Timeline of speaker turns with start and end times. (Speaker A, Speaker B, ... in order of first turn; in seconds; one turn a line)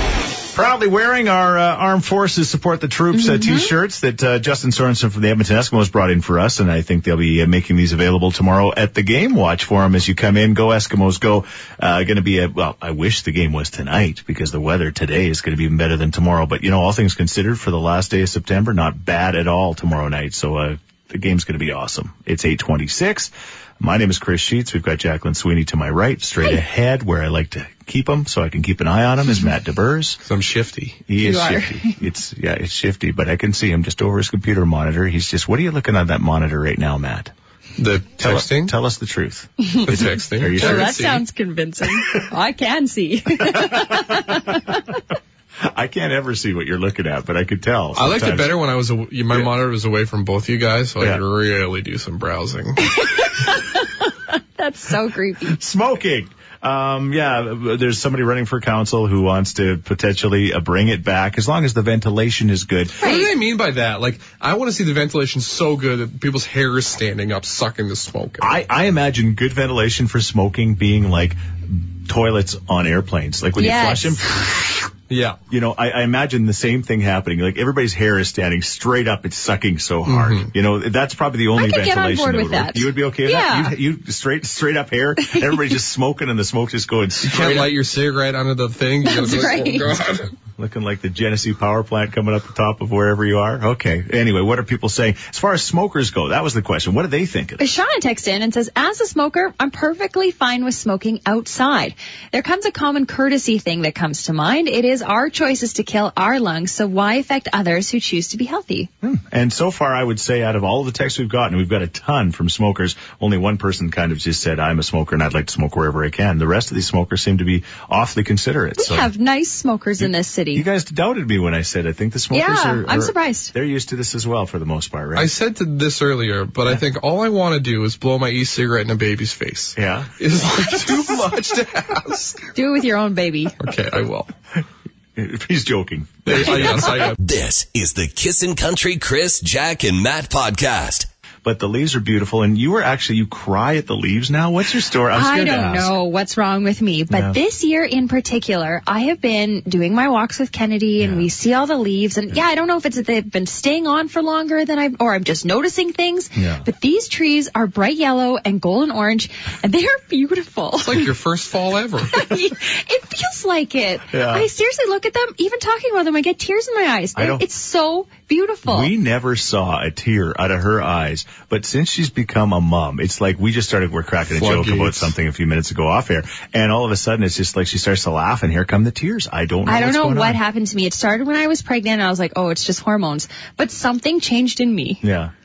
Speaker A: 0.5-30.2
Speaker B: 3.1-3.7
Speaker C: 30.2-31.0
Speaker A: 31.1-37.3
Speaker B: 31.2-32.0
Speaker C: 37.8-38.8
Speaker A: 38.2-40.9
Speaker C: 39.9-41.2
Speaker B: 40.5-44.8
Speaker A: 43.5-44.7
Speaker A: 45.7-48.6
Speaker C: 48.0-52.8
Speaker B: 52.8-55.6
Speaker A: 55.5-63.0
Speaker B: 63.0-63.3
Speaker C: 63.0-68.5
Speaker A: 68.4-74.7
Speaker B: 73.6-74.2
Speaker C: 75.1-75.4
Speaker A: 75.5-87.7
Speaker C: 80.1-80.5
Speaker B: 81.5-83.8
Speaker B: 85.2-85.7
Speaker C: 87.2-90.3
Speaker B: 89.0-90.0
Speaker A: 90.6-97.7
Speaker B: 97.6-108.9
Speaker A: 109.0-119.1
Speaker B: 118.8-120.7
Speaker A: 120.0-125.3
Speaker B: 122.3-123.5
Speaker C: 125.2-132.5
Speaker A: 129.8-130.1
Speaker B: 130.5-131.1
Speaker B: 132.6-133.5
Speaker C: 133.6-134.3
Speaker A: 135.2-136.9
Speaker C: 136.2-137.2
Speaker D: 137.1-141.1
Speaker A: 141.4-145.9
Speaker B: 145.1-161.1
Speaker A: 147.1-147.4
Speaker A: 151.0-151.3
Speaker A: 156.3-156.7
Speaker C: 160.8-162.3
Speaker B: 162.1-168.9
Speaker A: 164.1-164.5
Speaker A: 167.2-167.4
Speaker A: 168.7-180.4
Speaker C: 174.3-175.1
Speaker B: 179.7-185.0
Speaker A: 185.0-185.3